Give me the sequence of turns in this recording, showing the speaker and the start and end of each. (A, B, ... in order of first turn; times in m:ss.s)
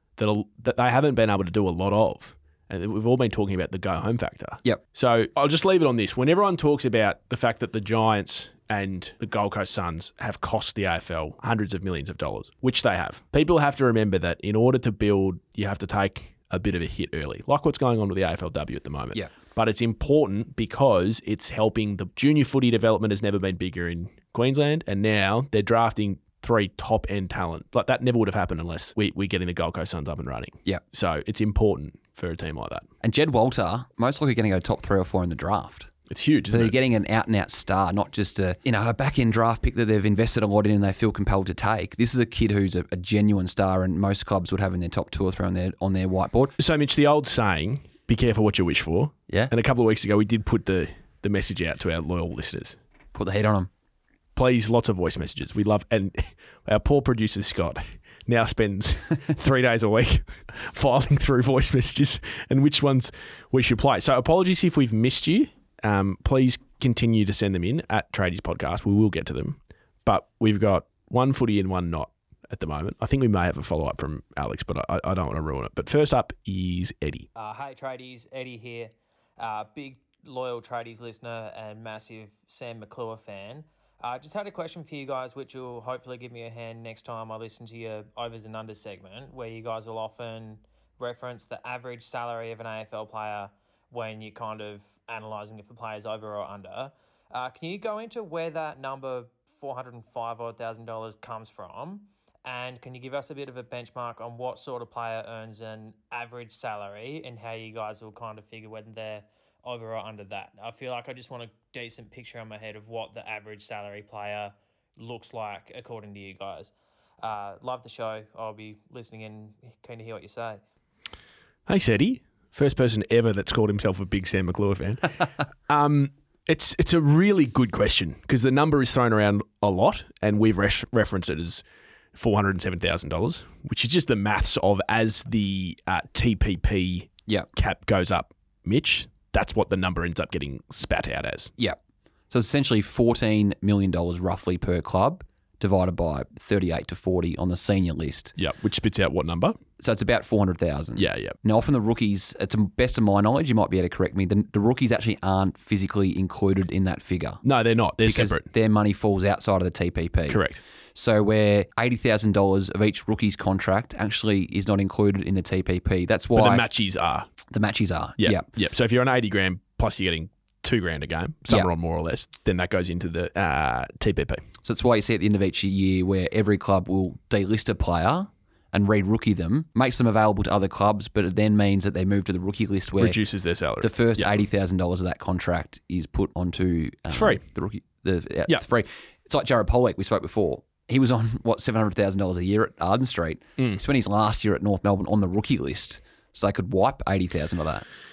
0:00.2-0:32.8 A
0:33.0-0:35.9 B
0:36.1-0:36.7 A
0:36.5-0:46.5 B
0:46.6-0:52.8 A
0:53.1-0:53.7 B
0:54.3-1:17.3 A
1:17.4-2:00.6 C
2:01.7-2:11.6 A
2:12.1-2:21.5 A
2:22.3-2:28.3 B
2:28.4-2:29.6 A
2:29.8-2:37.4 B
2:31.0-2:31.3 A
2:37.4-2:38.5 A
2:38.0-2:40.4 B
2:40.3-2:40.6 A
2:40.9-2:46.6 B
2:46.3-2:47.3 A
2:47.5-2:48.4 B
2:48.2-2:54.4 A
2:54.6-3:03.2 B
3:03.0-3:04.4 A
3:03.8-3:17.8 B
3:07.1-3:07.4 A